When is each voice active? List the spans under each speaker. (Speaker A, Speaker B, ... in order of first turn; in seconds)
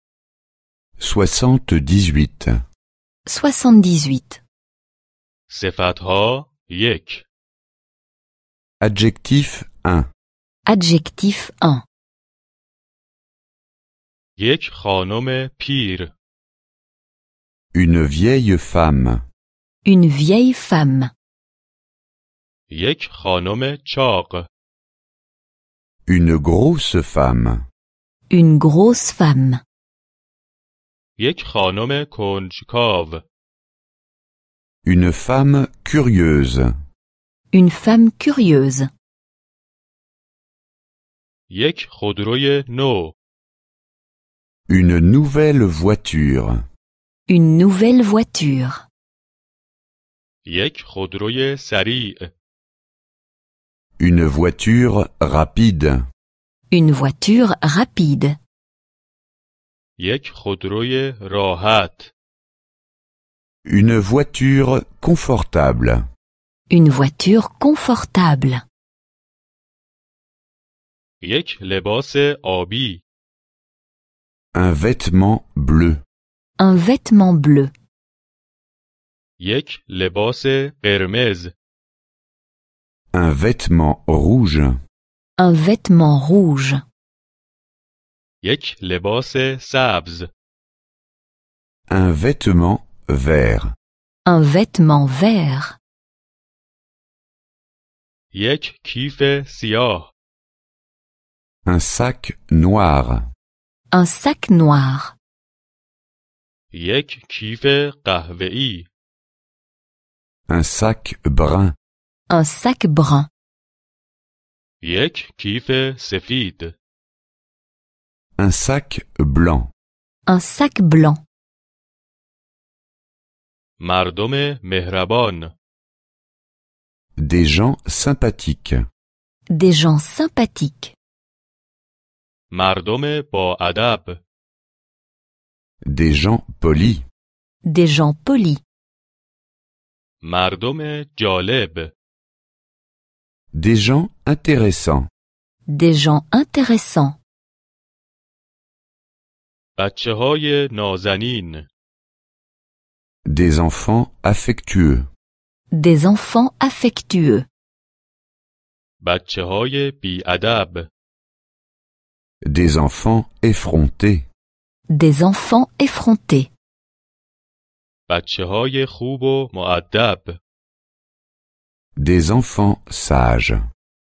Speaker A: 1.0-2.5, 8.8-10.0, 17.7-19.2, 26.1-27.6, 34.8-36.7, 44.7-46.6, 54.0-56.0, 63.6-66.0, 74.5-76.0, 83.1-84.7, 91.9-93.7, 101.7-103.2, 110.5-111.7, 118.4-119.7, 127.2-128.8, 135.9-137.0, 143.5-145.1, 153.3-155.1, 162.5-164.2, 172.0-173.6
Speaker B: 3.2-4.4, 10.7-11.8, 19.8-21.1, 28.3-29.6, 37.5-38.9, 47.3-48.9, 56.7-58.4, 66.7-68.6, 76.6-77.7, 85.4-86.8, 94.2-95.8, 103.9-105.2, 112.3-113.3, 120.2-121.2, 129.5-130.9, 137.6-138.6, 145.7-147.2, 155.7-157.4, 164.9-166.5
Speaker C: 5.5-7.2, 14.4-16.1, 22.7-24.5, 31.2-33.2, 41.5-43.1, 50.4-52.3, 60.0-62.1, 71.2-73.0, 79.4-81.5, 88.4-90.3, 98.3-100.1, 106.7-108.9, 114.8-116.8, 123.8-125.5, 132.5-134.2, 140.2-141.9, 149.8-151.7, 159.0-160.9, 168.1-170.4